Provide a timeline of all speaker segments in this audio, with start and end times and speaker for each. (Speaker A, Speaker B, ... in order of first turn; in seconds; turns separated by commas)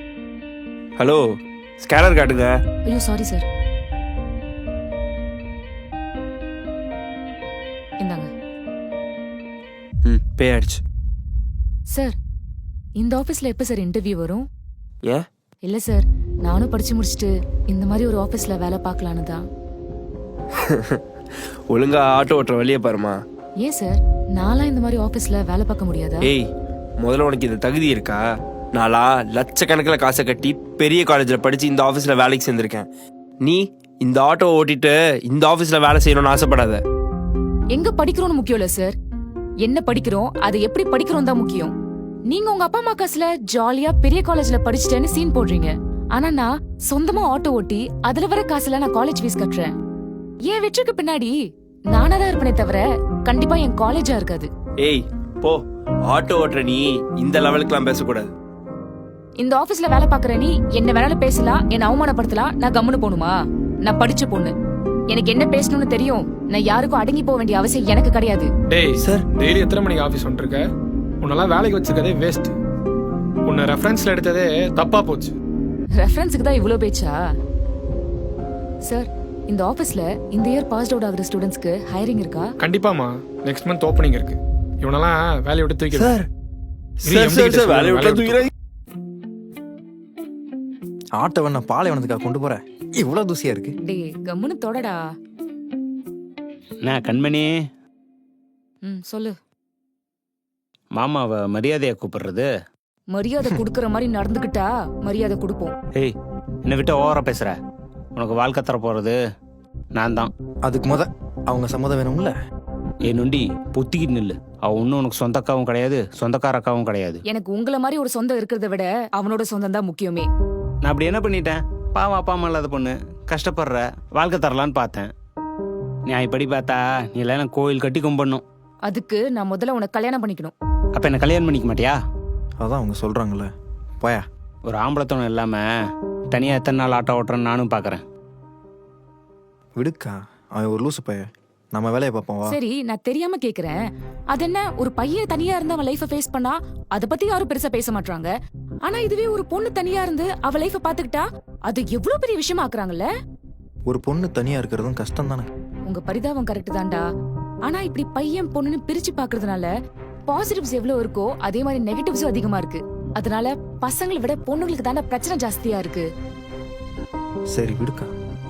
Speaker A: 1.0-1.2, Speaker A: 1.8-2.5, Speaker B: 2.9-3.5, Speaker B: 8.0-8.3, Speaker A: 10.1-10.8, Speaker B: 13.0-14.4, Speaker B: 15.7-19.4, Speaker A: 20.7-21.0, Speaker A: 21.7-23.2, Speaker B: 23.6-26.3, Speaker A: 26.2-26.5, Speaker A: 27.0-28.2, Speaker A: 28.7-32.9, Speaker A: 33.4-36.8, Speaker B: 37.7-38.9, Speaker B: 39.6-41.7, Speaker B: 42.3-49.7, Speaker B: 50.5-51.3, Speaker B: 51.9-54.5, Speaker A: 54.8-58.3, Speaker B: 59.4-63.3, Speaker B: 63.9-64.5, Speaker B: 65.1-68.5, Speaker C: 68.7-70.6, Speaker C: 71.2-72.5, Speaker C: 73.5-75.3, Speaker B: 76.0-77.2, Speaker B: 78.9-82.5, Speaker C: 82.6-86.2, Speaker C: 87.0-88.5, Speaker A: 87.1-88.5, Speaker D: 91.2-93.8, Speaker B: 93.8-95.0, Speaker E: 96.8-97.5, Speaker B: 98.8-99.4, Speaker E: 101.0-102.5, Speaker B: 103.1-105.7, Speaker E: 106.7-107.6, Speaker E: 108.2-109.2, Speaker E: 110.0-110.3, Speaker D: 110.7-112.3, Speaker E: 113.1-117.2, Speaker B: 117.3-120.3, Speaker E: 120.8-125.1, Speaker E: 126.1-128.4, Speaker B: 128.9-130.5, Speaker E: 130.9-132.0, Speaker D: 132.6-133.5, Speaker E: 134.7-135.7, Speaker E: 136.3-138.0, Speaker D: 139.8-142.6, Speaker B: 142.5-143.8, Speaker B: 144.3-148.3, Speaker B: 148.8-153.1, Speaker D: 153.9-155.5, Speaker B: 155.9-157.1, Speaker B: 157.7-159.7, Speaker B: 160.3-166.1, Speaker D: 167.6-168.1